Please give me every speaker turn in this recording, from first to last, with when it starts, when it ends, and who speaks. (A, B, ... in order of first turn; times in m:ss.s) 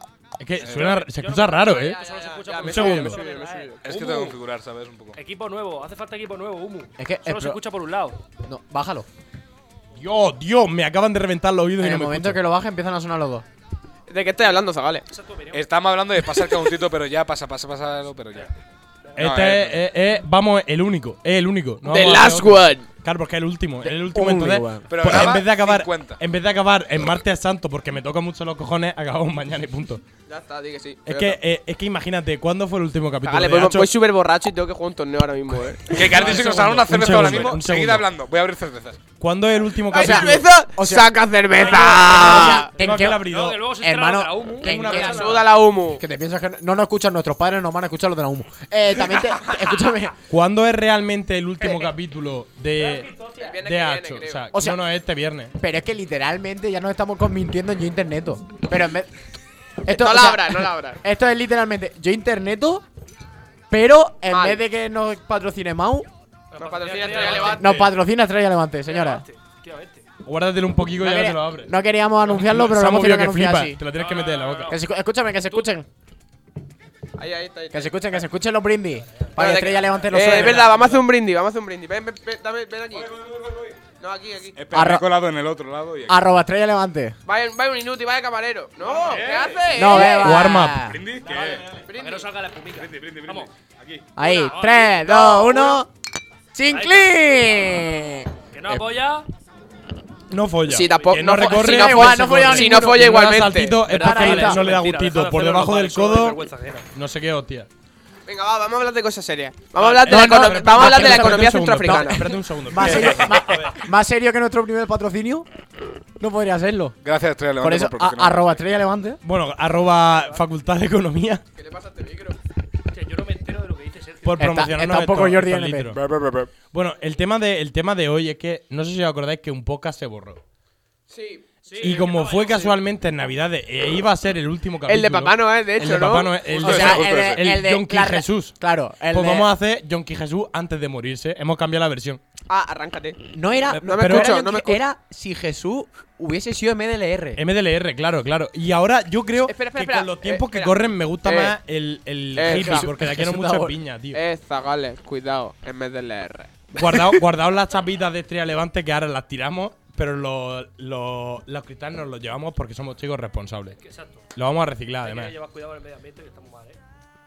0:00.4-0:02.0 A
0:00.6-0:01.0 B
0:00.7-0:04.3 C
0:01.8-0:04.4 D
0:02.6-0:03.2 A
0:03.8-0:05.2 B
0:05.2-0:08.2 C
0:07.0-0:07.6 E
0:08.4-0:09.1 E
0:10.0-0:12.4 A
0:11.8-0:13.4 E
0:14.1-0:15.0 D
0:15.1-0:15.6 C
0:15.5-0:18.5 B
0:16.3-0:16.6 D
0:19.2-0:30.0 A
0:19.2-0:19.8 B
0:21.8-0:22.8 D
0:23.8-0:24.9 E
0:24.9-0:26.2 B
0:30.3-0:31.4 D
0:31.1-0:33.9 A
0:33.2-0:36.4 D
0:35.9-0:38.1 A
0:35.9-0:39.0 B
0:39.2-0:40.4 A
0:39.9-0:42.7 D
0:39.9-0:43.2 E
0:41.6-0:42.4 C
0:41.7-0:43.6 A
0:43.2-0:45.4 C
0:43.8-0:45.4 E
0:44.6-0:45.4 A
0:44.8-0:46.0 D
0:46.0-0:50.2 E
0:50.3-0:55.5 A
0:52.8-0:53.6 C
0:53.4-0:54.5 D
0:54.5-0:54.8 E
0:55.6-0:59.1 E
0:59.8-1:02.8 E
0:59.9-1:01.0 D
1:03.7-1:06.1 E
1:04.3-1:04.6 D
1:06.5-1:07.8 C
1:06.6-1:07.7 D
1:07.4-1:09.2 E
1:08.9-1:10.0 C
1:10.2-1:11.7 A
1:11.0-1:13.8 E
1:12.3-1:14.8 A
1:13.9-1:14.8 C
1:14.7-1:15.9 E
1:17.2-1:18.0 D
1:17.7-1:20.7 E
1:19.4-1:23.1 D
1:20.1-1:20.9 A
1:23.0-1:23.8 B
1:24.0-1:24.6 D
1:24.6-1:26.2 B
1:24.7-1:25.1 E
1:26.1-1:27.2 E
1:27.3-1:30.2 D
1:28.8-1:29.7 B
1:29.7-1:31.0 E
1:29.9-1:30.8 A
1:30.8-1:31.6 B
1:31.2-1:33.5 C
1:31.9-1:32.3 D
1:32.8-1:34.1 B
1:34.2-1:35.9 E
1:34.2-1:35.7 C
1:35.1-1:35.8 D
1:36.5-1:38.8 E
1:36.7-1:37.2 C
1:38.5-1:39.3 C
1:40.3-1:46.4 A
1:40.7-1:43.8 D
1:41.5-1:43.2 E
1:43.8-1:46.9 C
1:43.9-1:44.6 E
1:46.9-1:47.7 A
1:48.3-1:52.3 D
1:49.8-1:53.8 A
1:50.1-1:55.5 E
1:52.8-1:53.3 B
1:56.2-1:57.0 E
1:57.0-1:58.5 B
1:57.6-1:59.2 E
1:59.2-2:01.4 A
2:00.0-2:00.4 C
2:01.6-2:02.4 D
2:02.9-2:04.4 C
2:04.2-2:06.0 A
2:04.4-2:06.0 E
2:05.9-2:06.5 B
2:06.7-2:10.4 A
2:11.1-2:12.7 D
2:11.6-2:12.7 C
2:11.8-2:18.6 A
2:14.9-2:16.4 D
2:16.5-2:17.5 B
2:16.6-2:19.5 E
2:19.1-2:22.2 A
2:22.5-2:23.2 D
2:23.3-2:27.4 E
2:23.7-2:24.8 D
2:23.9-2:24.3 A
2:27.4-2:34.2 A
2:29.4-2:31.6 D
2:32.4-2:32.9 D
2:32.4-2:33.8 E
2:34.1-2:37.1 D
2:36.8-2:43.8 A
2:43.7-2:44.3 C
2:44.3-2:45.3 A
2:45.0-2:46.8 C